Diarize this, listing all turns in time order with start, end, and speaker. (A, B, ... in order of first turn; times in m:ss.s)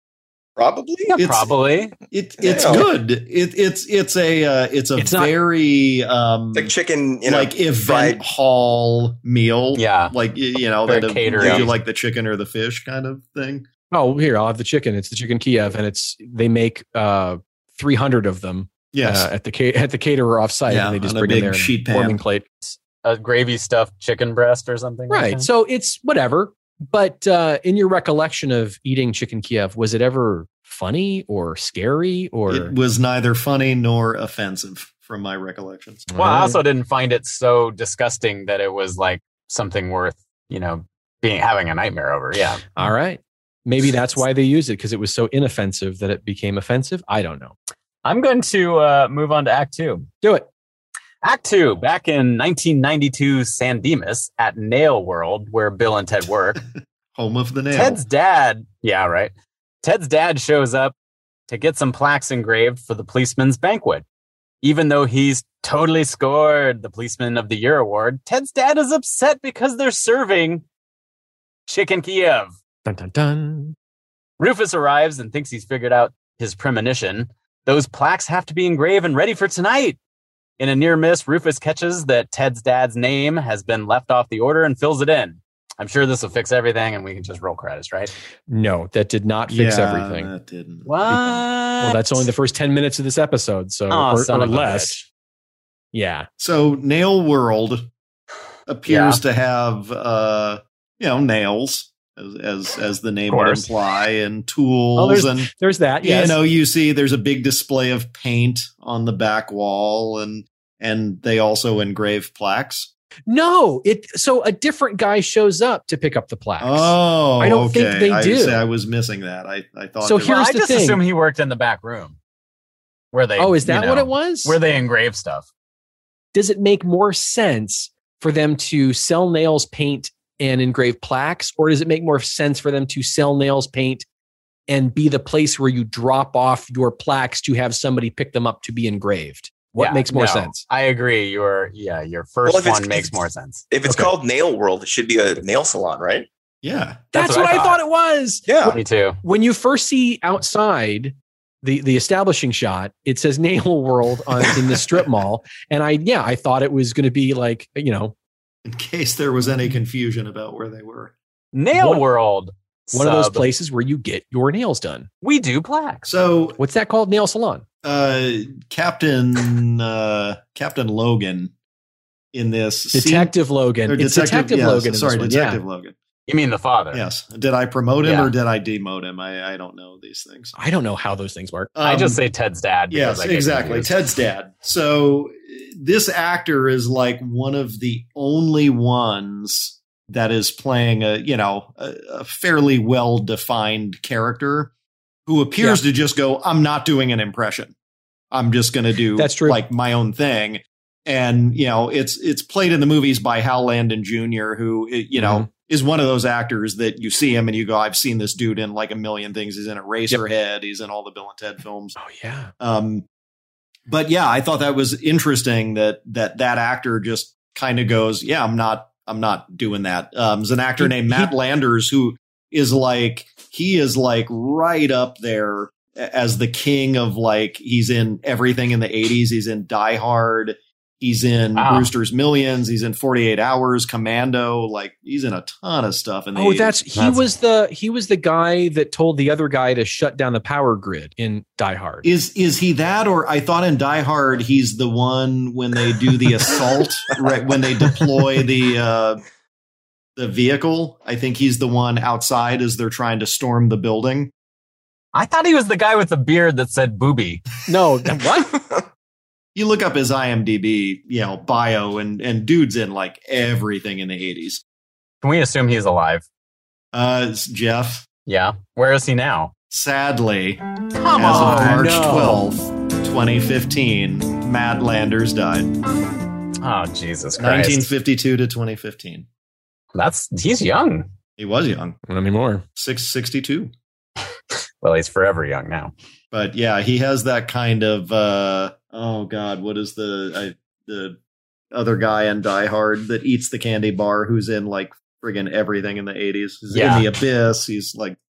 0:00.6-0:01.1 A
0:01.1-0:02.0 B
0:01.2-0:01.5 C
0:02.1-0:06.7 C
0:02.4-0:02.9 A
0:05.0-0:05.3 D
0:06.5-0:08.2 A
0:07.2-0:13.7 C
0:09.8-0:10.2 B
0:10.8-0:11.8 B
0:11.4-0:11.7 A
0:13.9-0:22.8 D
0:18.9-0:19.3 C
0:20.7-0:22.2 C
0:23.0-0:25.5 B
0:25.1-0:32.7 D
0:32.5-0:36.1 C
0:36.1-0:36.6 D
0:36.2-0:42.6 B
0:42.8-0:47.5 D
0:48.0-0:50.1 B
0:50.2-0:50.5 D
0:51.2-0:56.6 B
0:57.2-0:58.0 C
0:57.7-0:59.3 B
0:59.8-1:00.9 B
1:01.5-1:04.0 B
1:04.6-1:10.6 B
1:11.7-1:12.5 B
1:12.9-1:13.8 D
1:14.4-1:20.0 B
1:20.6-1:28.1 B
1:28.5-1:30.3 D
1:29.5-1:31.4 C
1:30.8-1:32.3 B
1:31.1-1:35.0 D
1:33.9-1:35.0 B
1:35.9-1:36.3 D
1:36.4-1:37.9 C
1:38.7-1:45.5 C
1:38.9-1:39.2 B
1:43.3-1:43.7 B
1:45.0-1:46.4 D
1:46.0-1:52.9 C
1:53.3-1:58.6 D
1:56.6-2:00.3 C
2:00.0-2:01.0 D
2:00.2-2:02.2 B
2:03.1-2:05.5 B
2:03.4-2:04.6 D
2:06.3-2:14.0 D
2:14.7-2:20.6 D
2:19.8-2:23.6 B
2:22.4-2:26.3 A
2:23.8-2:24.1 D
2:26.6-2:27.1 C
2:27.1-2:38.1 D
2:27.2-2:27.8 B
2:28.5-2:28.8 A
2:28.6-2:29.2 B
2:38.6-2:41.1 C
2:41.5-2:43.5 B
2:41.8-2:42.0 D
2:42.9-2:45.1 D
2:45.2-2:46.1 B
2:46.1-2:46.6 C
2:46.6-2:47.6 D
2:47.8-2:51.5 C
2:52.3-2:53.3 C
2:52.9-2:55.6 D
2:53.9-2:56.0 C
2:56.3-2:57.0 B
2:56.9-3:00.6 C
2:58.0-2:58.3 B
3:00.6-3:01.7 D
3:01.8-3:02.2 C
3:01.8-3:03.9 B
3:02.9-3:14.7 C
3:15.3-3:17.7 C
3:18.3-3:32.0 C
3:19.2-3:19.6 D
3:25.2-3:25.5 D
3:32.0-3:32.5 D
3:32.6-3:33.0 C
3:33.9-3:56.8 C
3:40.8-3:41.3 D
3:51.6-3:51.9 B
3:56.4-4:02.0 D
3:57.0-3:57.2 B
4:02.0-4:09.2 C
4:10.2-4:14.3 C
4:15.1-4:17.4 B
4:17.7-4:18.5 D
4:19.6-4:24.6 C
4:25.2-4:26.2 B
4:26.9-4:28.1 C
4:28.3-4:29.5 B
4:29.7-4:30.6 C
4:31.0-4:31.8 B
4:31.1-4:35.8 C
4:31.3-4:32.4 D
4:36.6-4:37.9 B
4:37.4-4:39.3 C
4:40.0-4:41.1 B
4:41.4-4:42.0 C
4:42.1-4:42.6 D
4:42.8-4:43.7 C
4:44.8-4:45.9 B
4:46.3-4:51.2 C
4:51.7-4:58.2 C
4:56.7-4:57.1 B